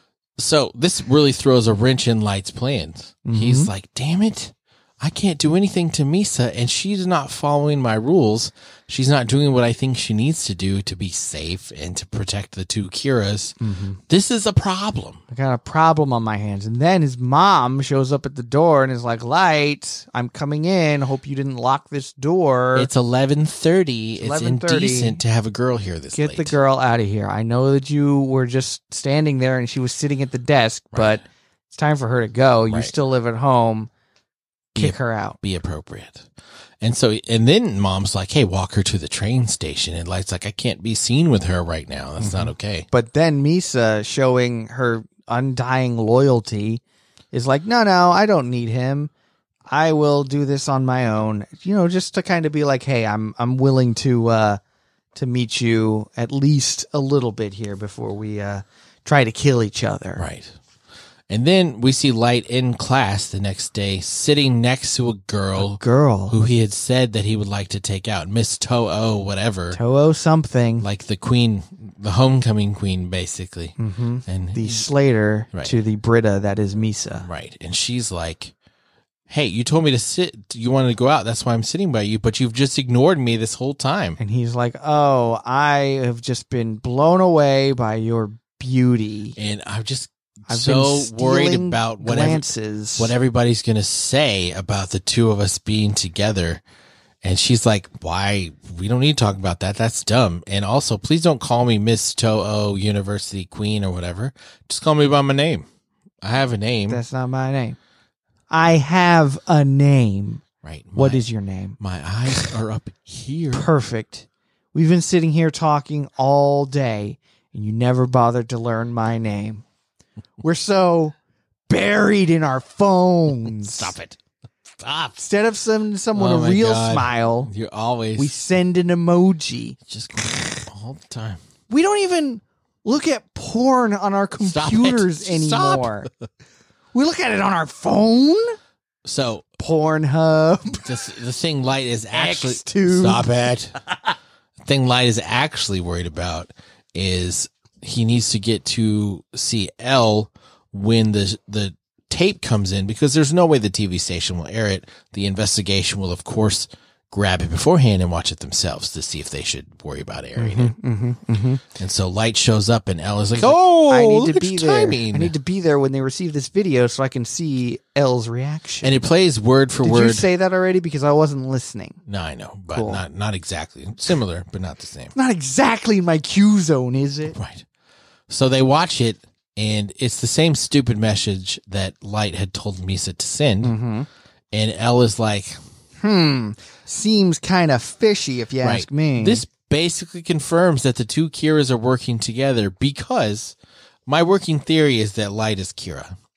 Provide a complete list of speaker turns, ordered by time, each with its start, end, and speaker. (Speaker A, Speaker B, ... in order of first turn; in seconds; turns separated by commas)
Speaker A: 0.4-13.6, Speaker B: 3.2-3.7, Speaker B: 13.6-14.0, Speaker A: 14.1-15.2, Speaker B: 15.3-22.9, Speaker A: 22.7-26.5, Speaker B: 24.2-25.2, Speaker B: 26.1-33.9, Speaker A: 30.9-31.2, Speaker A: 34.7-36.3, Speaker B: 34.8-35.4, Speaker A: 36.8-42.9, Speaker B: 42.2-49.1, Speaker B: 49.7-54.6, Speaker B: 55.1-60.2, Speaker A: 60.2-60.5, Speaker A: 61.3-69.8, Speaker B: 65.6-66.4, Speaker B: 69.7-70.8, Speaker A: 70.8-74.9, Speaker B: 73.8-77.2, Speaker A: 75.5-75.8, Speaker A: 77.2-78.5, Speaker A: 79.3-84.2, Speaker B: 84.2-89.4, Speaker A: 89.3-96.6, Speaker B: 90.5-93.1, Speaker A: 97.2-105.6, Speaker A: 106.2-107.0, Speaker B: 106.9-107.8, Speaker B: 108.5-110.4, Speaker A: 110.6-111.2, Speaker B: 111.0-111.8, Speaker A: 111.8-113.7, Speaker B: 113.5-119.6, Speaker B: 120.4-121.1, Speaker B: 121.7-123.9, Speaker A: 123.3-124.2, Speaker A: 124.8-125.2, Speaker B: 125.2-127.5, Speaker A: 126.1-128.3, Speaker B: 128.2-129.8, Speaker A: 129.9-131.4, Speaker B: 131.7-136.1, Speaker A: 134.4-136.1, Speaker B: 136.9-138.6, Speaker A: 139.0-139.4, Speaker B: 139.6-140.9, Speaker A: 140.7-143.8, Speaker B: 142.1-143.3, Speaker B: 143.9-144.1, Speaker A: 144.6-160.7, Speaker B: 160.4-161.6, Speaker A: 161.7-165.3, Speaker B: 163.4-169.0, Speaker A: 168.8-170.3, Speaker B: 169.8-172.0, Speaker A: 172.1-175.1, Speaker B: 172.7-173.0, Speaker B: 175.1-177.3, Speaker A: 177.3-177.6, Speaker A: 178.3-183.7, Speaker B: 183.6-184.1, Speaker A: 184.5-185.6, Speaker B: 186.0-189.4, Speaker A: 188.6-193.5, Speaker A: 194.1-196.1